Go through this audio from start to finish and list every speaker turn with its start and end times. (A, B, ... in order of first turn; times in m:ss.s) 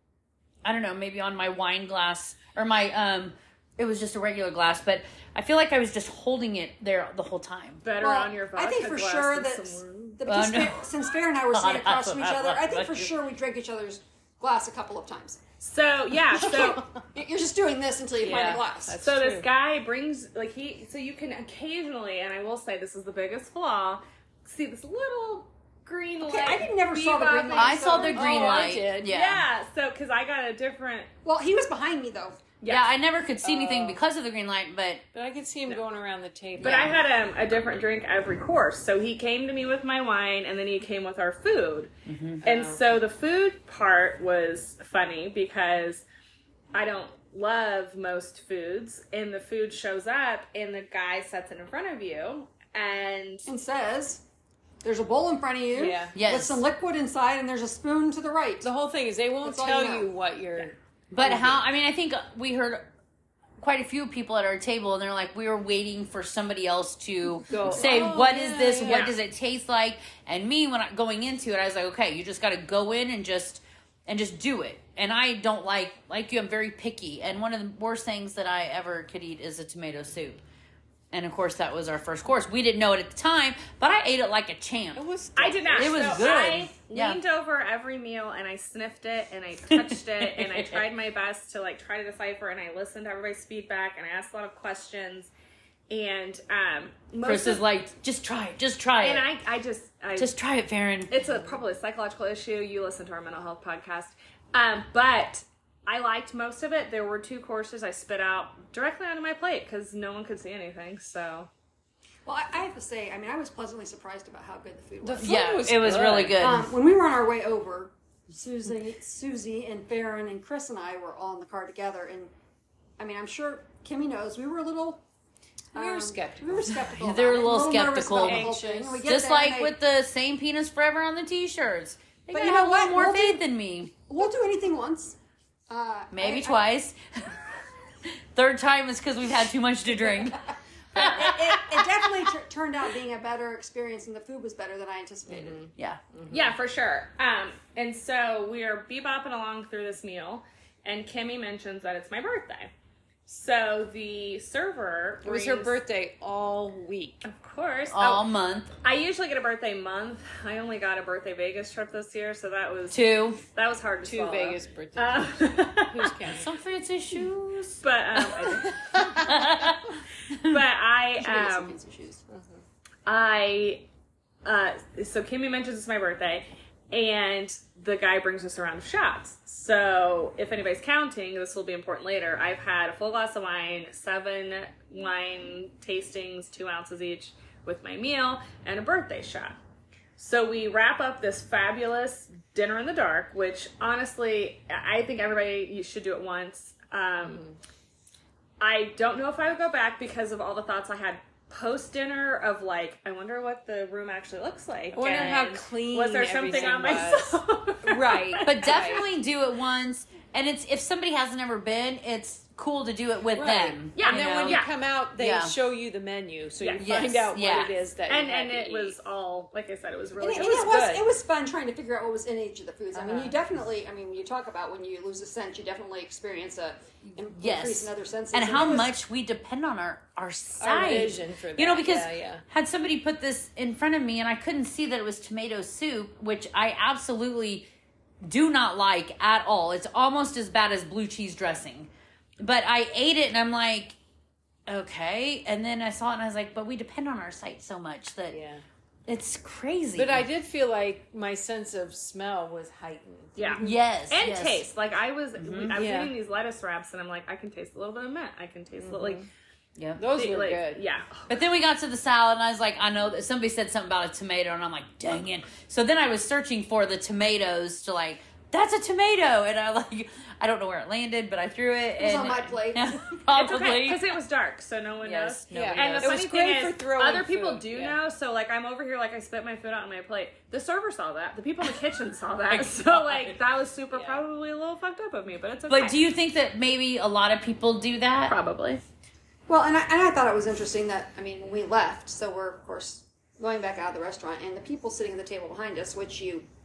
0:00.6-0:07.8 A
0:07.8-0:10.2 B
0:08.0-0:15.4 C
0:10.3-0:10.9 A
0:11.5-0:13.1 A
0:15.6-0:16.8 B
0:16.4-0:19.0 C
0:18.2-0:19.5 D
0:19.0-0:31.1 B
0:26.2-0:28.4 C
0:27.5-0:29.4 A
0:28.1-0:29.1 D
0:31.2-0:32.4 C
0:32.6-0:32.9 B
0:32.7-0:35.0 A
0:33.4-0:34.0 D
0:35.1-0:37.0 D
0:36.6-0:41.9 B
0:42.1-0:42.4 A
0:42.4-0:42.8 D
0:42.4-0:46.0 B
0:46.7-0:53.5 B
0:53.5-0:54.2 C
0:54.8-0:58.7 C
0:55.7-0:56.2 D
0:56.2-0:56.6 A
0:58.6-1:01.6 D
0:59.4-1:00.1 C
1:01.1-1:02.9 A
1:03.6-1:20.4 A
1:07.5-1:09.2 D
1:21.1-1:25.0 A
1:25.0-1:26.3 D
1:25.4-1:35.3 B
1:25.7-1:27.2 A
1:29.7-1:30.9 A
1:35.9-1:37.6 B
1:37.2-1:39.3 A
1:39.0-1:40.3 B
1:40.2-1:41.1 A
1:41.1-1:51.5 B
1:52.3-1:55.4 C
1:55.0-1:56.4 D
1:55.2-1:56.7 A
1:56.4-2:02.3 C
2:03.0-2:05.0 C
2:05.7-2:06.7 D
2:05.7-2:09.7 C
2:06.8-2:13.9 A
2:08.2-2:08.9 B
2:12.3-2:13.4 C
2:14.1-2:15.2 C
2:15.7-2:16.6 C
2:16.1-2:17.4 A
2:18.1-2:21.8 A
2:21.0-2:25.6 C
2:25.3-2:26.5 D
2:26.3-2:32.7 B
2:33.3-2:35.8 B
2:35.2-2:37.2 D
2:37.2-2:38.3 B
2:37.9-2:38.7 A
2:38.8-2:46.1 B
2:42.9-2:43.4 A
2:44.0-2:46.5 D
2:46.3-2:48.4 A
2:47.8-2:49.0 B
2:48.7-2:49.4 D
2:49.1-2:50.6 A
2:50.4-2:51.8 B
2:51.2-2:52.2 C
2:52.3-2:52.6 D
2:53.1-2:53.9 B
2:54.4-3:09.6 B
3:10.2-3:17.4 B
3:17.2-3:17.6 D
3:18.6-3:29.0 B
3:24.9-3:29.0 D
3:26.5-3:26.9 A
3:28.4-3:34.6 A
3:33.3-3:39.0 D
3:34.0-3:34.7 B
3:35.2-3:35.5 A
3:36.6-3:37.3 B
3:36.8-3:37.7 A
3:38.1-3:40.8 B
3:40.2-3:48.9 C
3:40.4-3:41.1 D
3:42.9-3:43.4 D
3:47.3-3:57.7 A
3:50.6-3:52.4 D
3:58.2-4:04.0 A
4:04.7-4:08.4 A
4:08.3-4:08.6 D
4:09.1-4:10.3 A
4:10.0-4:13.7 D
4:13.4-4:19.2 B
4:13.6-4:14.7 A
4:15.4-4:15.8 A
4:15.7-4:16.1 D
4:18.8-4:19.3 D
4:20.0-4:20.8 D
4:20.1-4:21.3 B
4:21.3-4:34.0 A
4:32.0-4:33.0 C
4:33.3-4:46.0 B
4:35.0-4:36.2 A
4:35.5-4:38.0 D
4:42.5-4:42.9 A
4:43.9-4:44.2 D
4:45.7-4:48.4 A
4:48.3-4:48.8 B
4:49.5-4:56.5 C